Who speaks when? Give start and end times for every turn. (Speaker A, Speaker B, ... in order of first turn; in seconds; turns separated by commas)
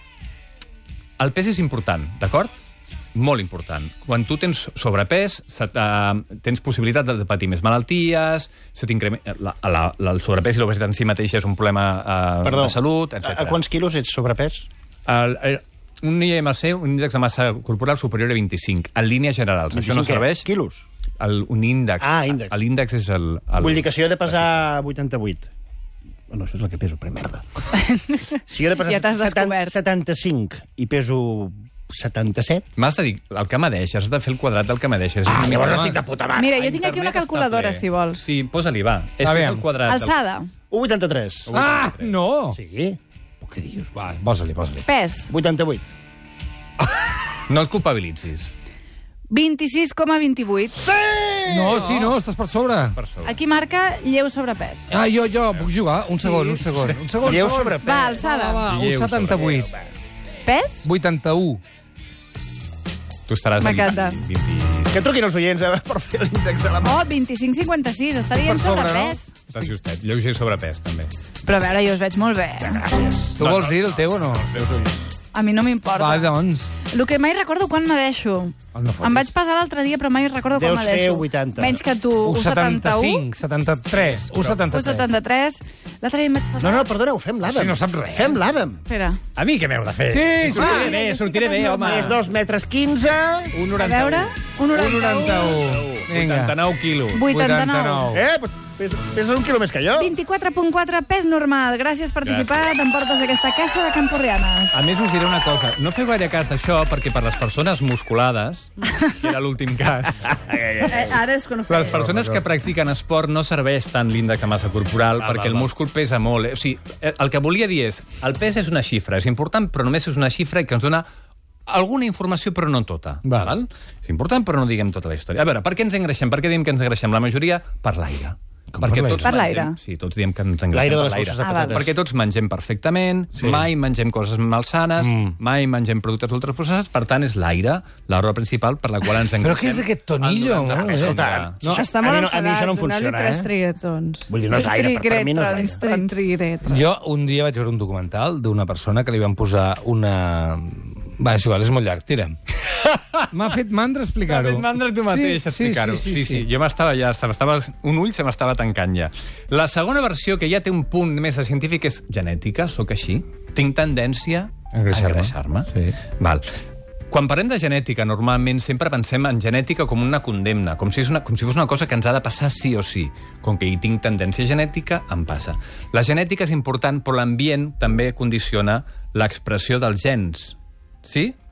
Speaker A: 1.2-2.6, Speaker A: 3.1-13.6, Speaker B: 12.4-14.7, Speaker A: 15.1-20.5, Speaker B: 19.7-20.8, Speaker A: 21.2-24.6, Speaker B: 22.0-22.6, Speaker B: 23.6-25.5, Speaker B: 26.3-27.4, Speaker C: 27.8-29.8, Speaker B: 28.5-32.7, Speaker A: 32.8-40.2, Speaker B: 35.3-36.7, Speaker D: 35.5-36.0, Speaker C: 36.3-38.2, Speaker D: 39.2-39.7, Speaker C: 39.8-40.5, Speaker B: 40.7-41.5, Speaker A: 41.5-42.1, Speaker D: 41.5-42.6, Speaker B: 42.5-43.0, Speaker D: 43.4-44.8, Speaker C: 44.9-45.3, Speaker B: 45.3-45.9, Speaker A: 47.5-48.5, Speaker C: 49.3-50.9, Speaker B: 50.8-51.9, Speaker D: 51.5-53.0, Speaker A: 51.7-52.1, Speaker A: 52.7-53.4, Speaker C: 53.2-54.9, Speaker D: 54.9-59.7, Speaker C: 56.2-56.6, Speaker B: 57.2-58.2, Speaker C: 57.8-58.6, Speaker A: 58.7-59.6, Speaker C: 60.4-60.9, Speaker D: 60.8-61.6, Speaker A: 63.3-65.0, Speaker C: 63.6-64.2, Speaker B: 64.9-67.0, Speaker C: 66.8-69.3, Speaker D: 68.4-69.2, Speaker A: 69.5-71.1, Speaker C: 71.4-72.9, Speaker B: 72.6-73.4, Speaker D: 73.4-74.6, Speaker A: 73.4-74.9, Speaker C: 75.3-83.2, Speaker D: 75.9-76.7, Speaker D: 78.7-79.3, Speaker B: 80.5-81.8, Speaker D: 82.2-85.1, Speaker A: 84.1-84.5, Speaker C: 84.7-86.9, Speaker B: 86.6-88.8, Speaker D: 87.4-88.4, Speaker C: 88.9-89.2, Speaker A: 89.3-92.2, Speaker D: 90.1-90.9, Speaker C: 90.5-92.2, Speaker B: 90.5-91.0, Speaker B: 91.8-93.5, Speaker A: 93.5-97.3, Speaker C: 93.7-95.6, Speaker D: 94.7-96.6, Speaker C: 97.1-98.1, Speaker D: 97.2-98.2, Speaker B: 98.1-100.1, Speaker C: 99.9-104.8, Speaker A: 102.2-102.7, Speaker A: 104.7-110.8, Speaker B: 110.5-111.1, Speaker E: 110.9-112.2, Speaker A: 111.7-121.0, Speaker D: 115.2-115.6, Speaker A: 121.7-141.6, Speaker D: 123.2-123.5, Speaker D: 128.7-129.3, Speaker C: 129.2-129.8, Speaker B: 130.7-131.8, Speaker C: 131.4-131.8, Speaker D: 133.4-133.7, Speaker D: 135.0-135.4, Speaker D: 139.4-141.8, Speaker B: 140.9-143.5, Speaker E: 141.6-144.3, Speaker B: 144.3-145.8, Speaker C: 144.5-146.2, Speaker E: 145.5-146.8, Speaker D: 146.7-152.4, Speaker A: 152.8-153.2, Speaker D: 153.3-156.4, Speaker A: 154.2-166.4, Speaker D: 164.7-165.9, Speaker A: 167.1-181.3